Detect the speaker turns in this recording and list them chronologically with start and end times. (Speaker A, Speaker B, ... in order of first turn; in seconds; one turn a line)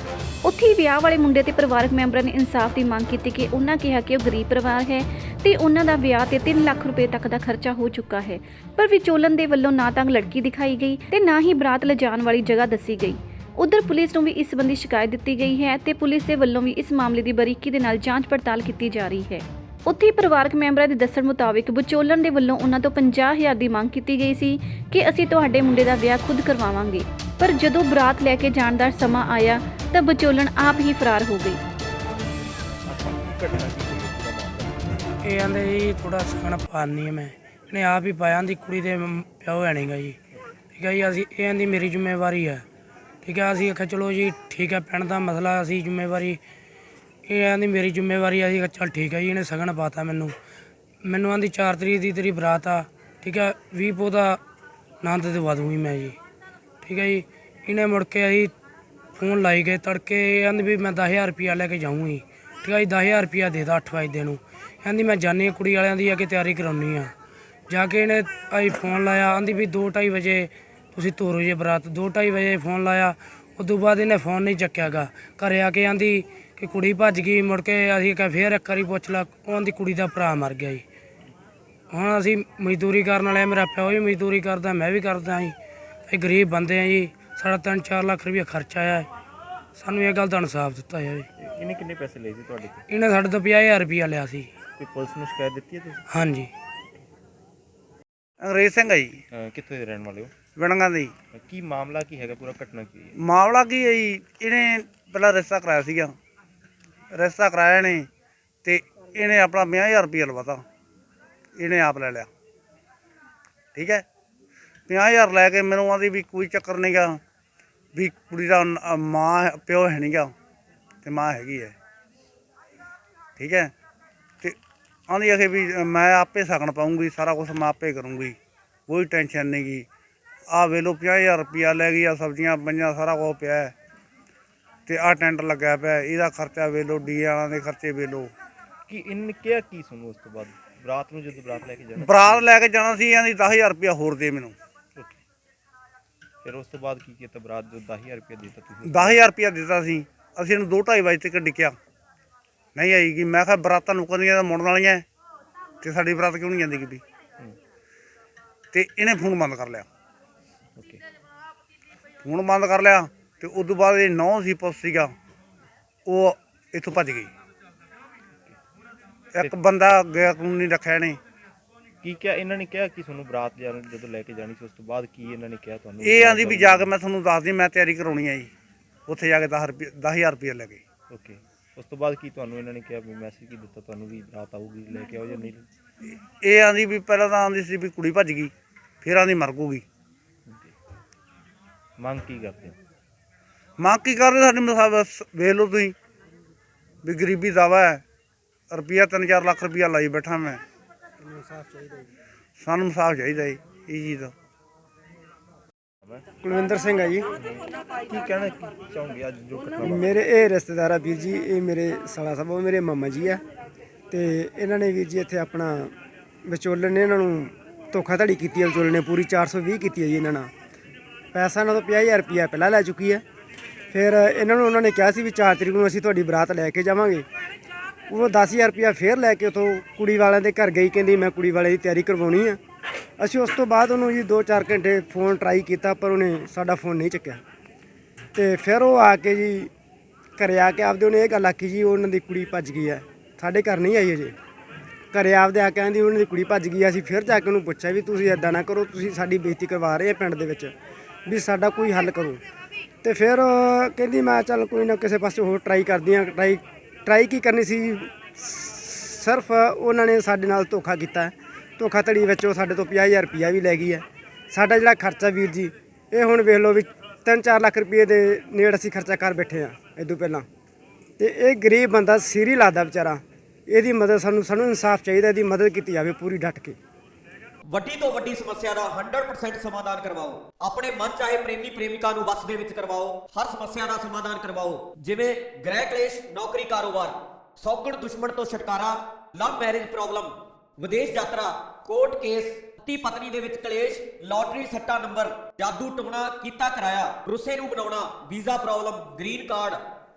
Speaker A: 0.4-31.6
Speaker B: 32.9-35.1
Speaker C: 35.3-40.2
Speaker C: 40.8-42.6
Speaker C: 43.2-46.4
Speaker C: 47.3-50.3
Speaker C: 51.0-54.4
Speaker C: 55.0-56.2
Speaker C: 56.8-58.5
Speaker C: 59.2-67.1
Speaker C: 67.7-80.8
Speaker C: 81.9-85.5
Speaker C: 86.1-89.1
Speaker C: 89.8-91.3
Speaker B: 91.4-92.8
Speaker C: 92.9-94.5
Speaker B: 94.8-96.2
Speaker C: 96.1-96.5
Speaker D: 98.4-99.2
Speaker B: 99.3-100.3
Speaker D: 100.6-101.1
Speaker B: 101.3-103.2
Speaker D: 103.2-106.1
Speaker D: 107.1-108.1
Speaker D: 108.7-110.6
Speaker D: 111.6-112.3
Speaker D: 113.8-114.0
Speaker D: 114.9-117.2
Speaker D: 118.0-120.3
Speaker D: 121.0-121.8
Speaker D: 123.4-123.7
Speaker D: 125.1-129.9
Speaker D: 130.5-133.7
Speaker D: 134.9-138.3
Speaker B: 138.9-142.5
Speaker D: 142.0-144.6
Speaker B: 145.0-145.2
Speaker B: 146.4-149.2
Speaker D: 148.9-151.8
Speaker D: 152.8-155.1
Speaker D: 155.8-157.0
Speaker D: 158.7-159.9
Speaker B: 160.8-161.0
Speaker D: 162.2-165.1
Speaker D: 166.1-167.3
Speaker D: 169.3-171.2
Speaker B: 172.0-176.9
Speaker D: 176.0-178.5
Speaker D: 179.1-180.8
Speaker B: 181.1-185.7
Speaker D: 186.3-189.8
Speaker B: 190.5-190.7
Speaker B: 192.0-192.8
Speaker D: 193.8-195.9
Speaker D: 197.0-198.0
Speaker D: 198.7-200.6
Speaker E: 201.2-202.1
Speaker D: 202.6-204.3
Speaker E: 206.4-207.3
Speaker B: 207.4-210.2
Speaker E: 209.8-213.4
Speaker E: 214.1-215.9
Speaker E: 216.4-220.5
Speaker E: 221.3-223.2
Speaker E: 223.9-227.3
Speaker E: 228.1-232.6
Speaker E: 233.2-237.4
Speaker E: 238.3-239.7
Speaker E: 240.4-244.3
Speaker E: 245.1-250.7
Speaker E: 251.3-252.4
Speaker E: 253.0-270.5
Speaker E: 271.2-276.8
Speaker F: 277.7-299.8